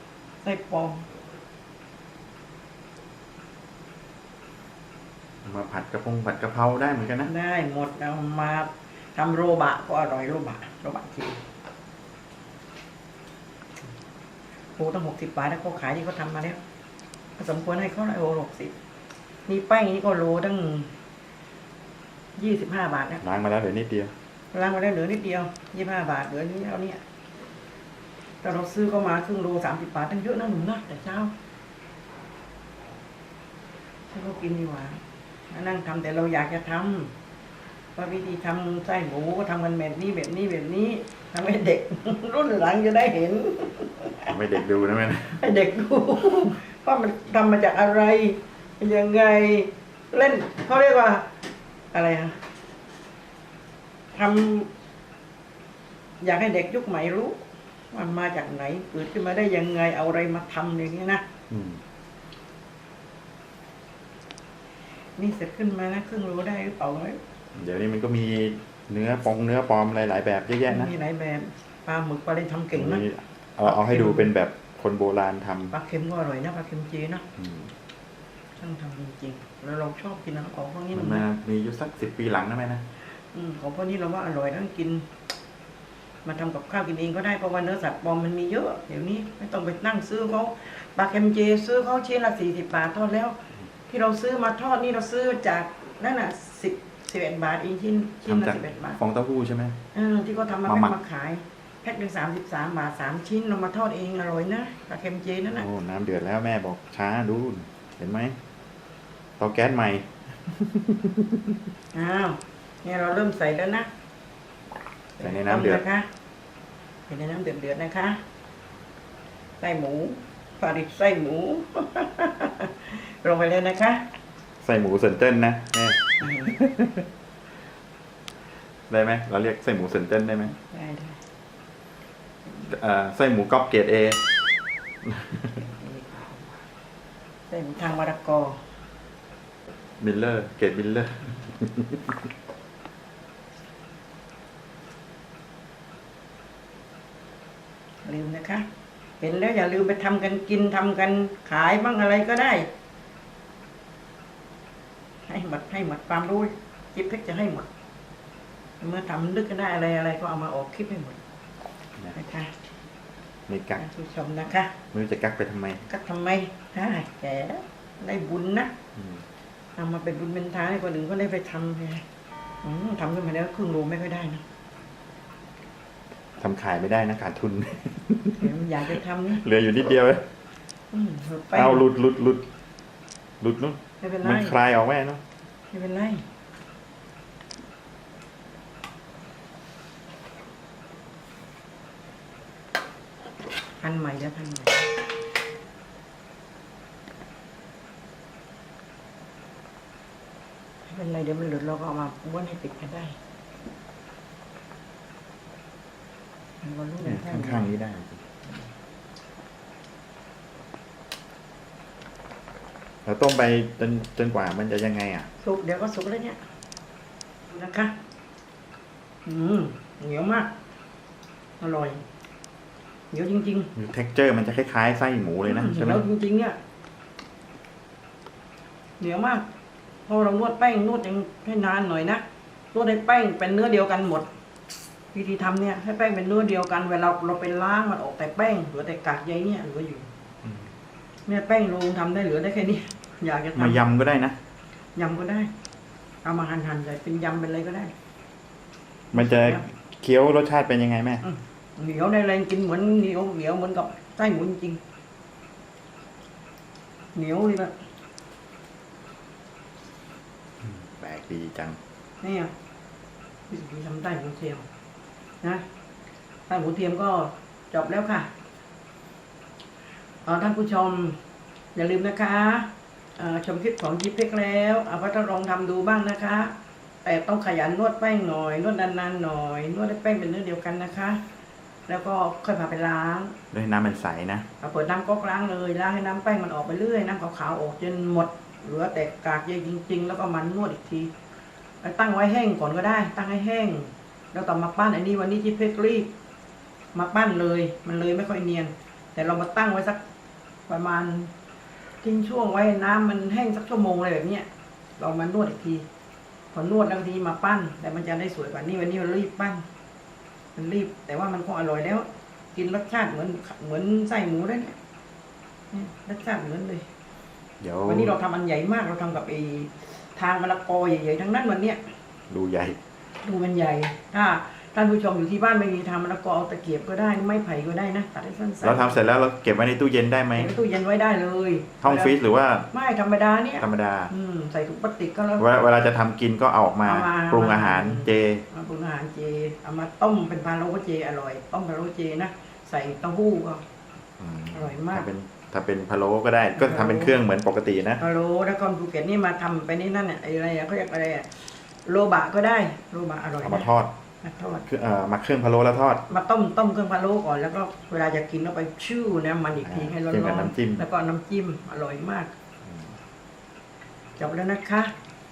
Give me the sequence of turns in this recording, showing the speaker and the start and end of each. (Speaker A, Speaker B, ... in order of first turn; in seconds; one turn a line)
Speaker A: 0.4-1.1
Speaker B: 5.4-7.3
Speaker A: 7.2-11.4
Speaker A: 14.8-16.6
Speaker A: 17.4-18.7
Speaker A: 19.5-20.9
Speaker A: 22.4-23.2
Speaker B: 23.2-24.1
Speaker A: 24.5-27.0
Speaker A: 28.4-31.3
Speaker A: 34.1-37.1
Speaker A: 38.0-44.3
Speaker B: 44.2-45.4
Speaker A: 45.4-51.3
Speaker A: 51.9-52.4
Speaker A: 54.1-54.7
Speaker A: 56.2-61.2
Speaker B: 61.5-61.8
Speaker A: 65.2-67.2
Speaker B: 67.5-70.9
Speaker A: 70.7-73.0
Speaker B: 72.7-75.7
Speaker A: 73.6-74.3
Speaker A: 75.7-77.2
Speaker B: 77.4-77.7
Speaker A: 78.6-81.2
Speaker B: 80.9-82.8
Speaker A: 83.3-85.0
Speaker A: 86.2-99.0
Speaker B: 98.3-99.8
Speaker A: 99.9-105.7
Speaker B: 100.6-100.9
Speaker B: 105.5-108.4
Speaker B: 109.4-111.3
Speaker A: 111.9-113.9
Speaker A: 115.2-116.1
Speaker B: 115.2-115.8
Speaker A: 117.1-118.2
Speaker A: 119.6-124.0
Speaker B: 124.6-127.0
Speaker A: 126.2-126.5
Speaker B: 128.9-130.5
Speaker A: 130.5-131.2
Speaker B: 132.7-134.2
Speaker B: 135.0-135.6
Speaker A: 135.6-136.4
Speaker A: 137.5-138.6
Speaker B: 140.0-142.2
Speaker A: 148.0-148.7
Speaker A: 149.2-152.7
Speaker A: 155.3-157.7
Speaker A: 158.8-161.2
Speaker A: 162.1-162.5
Speaker B: 163.5-163.8
Speaker A: 163.8-164.8
Speaker B: 164.9-165.8
Speaker A: 165.9-168.7
Speaker B: 168.9-169.2
Speaker A: 169.8-172.0
Speaker A: 172.6-174.4
Speaker B: 176.4-178.5
Speaker A: 178.4-179.4
Speaker B: 179.3-180.2
Speaker A: 180.9-181.9
Speaker B: 181.5-182.4
Speaker B: 183.4-185.2
Speaker A: 184.0-184.6
Speaker A: 185.7-186.2
Speaker A: 193.8-194.8
Speaker A: 200.8-203.2
Speaker A: 206.6-207.7
Speaker B: 207.0-208.2
Speaker B: 213.0-215.3
Speaker A: 215.4-216.4
Speaker A: 217.5-217.9
Speaker A: 219.2-220.5
Speaker A: 221.6-222.0
Speaker A: 223.1-223.7
Speaker B: 223.7-226.0
Speaker A: 225.4-226.6
Speaker A: 229.0-229.4
Speaker A: 230.1-234.3
Speaker A: 235.1-240.1
Speaker A: 241.2-243.8
Speaker B: 243.6-244.4
Speaker A: 244.9-245.5
Speaker A: 246.2-247.9
Speaker B: 249.1-251.2
Speaker A: 249.1-249.6
Speaker A: 251.2-254.8
Speaker A: 257.1-257.7
Speaker B: 260.6-261.8
Speaker A: 262.2-262.5
Speaker A: 263.5-264.6
Speaker A: 266.5-268.3
Speaker A: 270.2-271.2
Speaker A: 271.7-281.2
Speaker A: 281.9-283.4
Speaker B: 283.5-284.4
Speaker A: 284.6-291.1
Speaker A: 291.8-296.1
Speaker A: 296.9-300.0
Speaker A: 300.7-301.3
Speaker A: 302.0-304.5
Speaker A: 305.0-305.9
Speaker A: 306.5-309.6
Speaker A: 310.5-314.8
Speaker A: 315.7-316.8
Speaker B: 317.6-318.1
Speaker A: 317.8-321.8
Speaker B: 322.3-322.8
Speaker A: 323.2-329.0
Speaker B: 328.6-330.5
Speaker A: 330.3-332.1
Speaker B: 331.8-332.7
Speaker A: 332.7-335.4
Speaker B: 333.6-334.1
Speaker B: 335.4-338.4
Speaker A: 336.9-343.6
Speaker B: 344.2-348.0
Speaker A: 344.5-345.1
Speaker A: 346.5-347.1
Speaker A: 348.0-353.7
Speaker B: 353.4-353.9
Speaker A: 354.2-354.6
Speaker B: 354.6-356.0
Speaker A: 356.1-362.3
Speaker B: 359.6-360.8
Speaker B: 362.7-363.0
Speaker A: 364.2-364.9